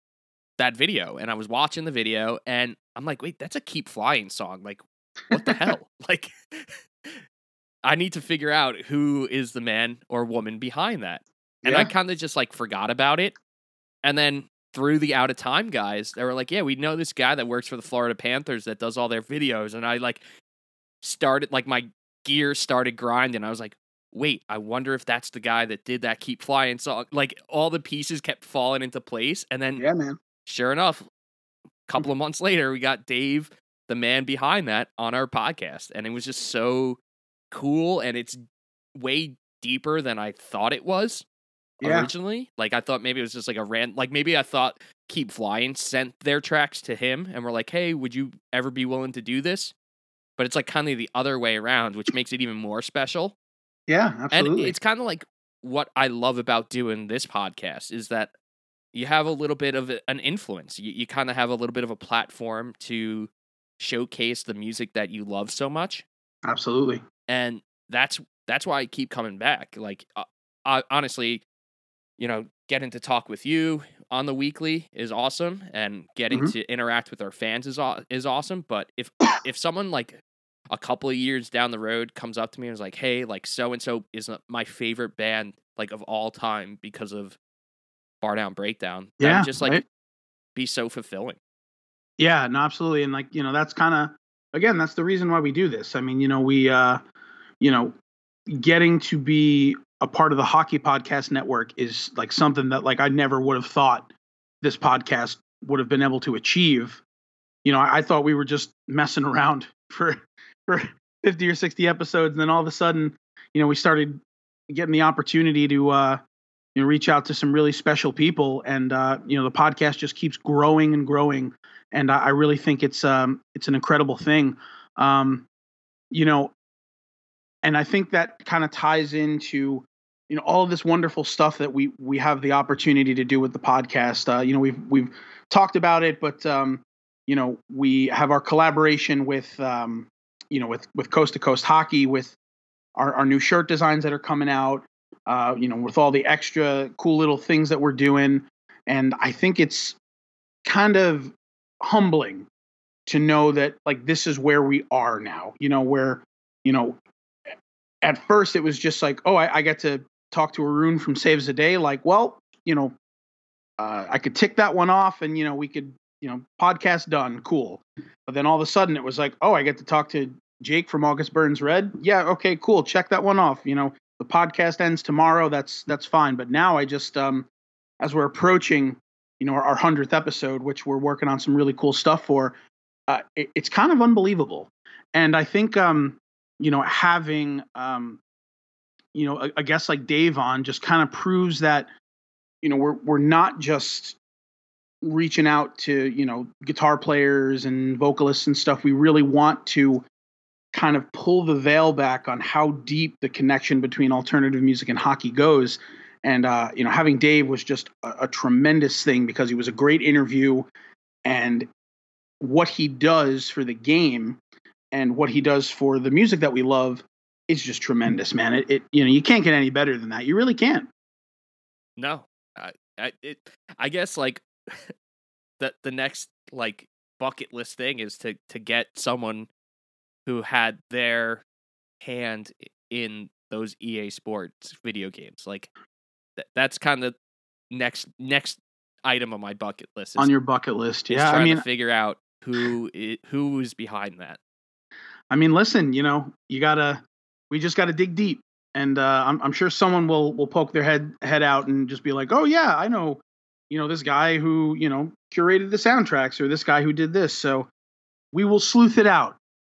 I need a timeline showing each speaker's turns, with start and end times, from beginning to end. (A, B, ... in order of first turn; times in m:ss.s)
0:00.6-0:07.2 A
0:07.8-0:13.4 A
0:11.6-0:11.9 B
0:14.0-0:20.2 A
0:21.0-0:29.8 A
0:29.8-0:30.2 B
0:30.5-0:31.1 A
0:31.9-0:37.0 A
0:37.5-0:38.4 A
0:39.0-0:41.2 A
0:41.8-0:42.1 B
0:41.8-0:49.7 A
0:50.4-0:53.3 A
0:53.9-0:54.8 B
0:54.3-0:58.3 A
0:58.9-1:06.0 A
1:06.5-1:07.0 B
1:07.3-1:11.4 A
1:12.2-1:20.2 A
1:20.7-1:27.4 A
1:28.2-1:29.8 A
1:29.2-1:29.8 B
1:30.6-1:31.4 A
1:32.2-1:37.0 B
1:37.6-1:38.0 B
1:38.5-1:44.1 B
1:44.6-1:47.0 B
1:47.6-1:56.2 B
1:56.8-2:05.5 B
2:06.1-2:06.5 B
2:07.6-2:22.4 B
2:23.0-2:30.0 B
2:30.6-2:32.5 B
2:33.1-2:37.0 B
2:38.0-2:43.0 B
2:43.8-2:57.5 B
2:58.0-3:02.6 B
3:03.1-3:08.2 B
3:09.1-3:11.9 B
3:12.6-3:14.2 B
3:15.0-3:20.0 B
3:20.7-3:30.7 B
3:31.2-3:31.7 B
3:32.4-3:34.4 B
3:34.9-3:40.9 B
3:42.0-3:44.9 A
3:45.6-3:49.5 A
3:50.3-3:51.4 A
3:52.0-3:55.7 A
3:56.4-3:57.2 A
3:57.7-4:00.3 A
4:00.2-4:01.6 B
4:01.1-4:04.4 A
4:05.3-4:17.7 B
4:18.3-4:19.4 B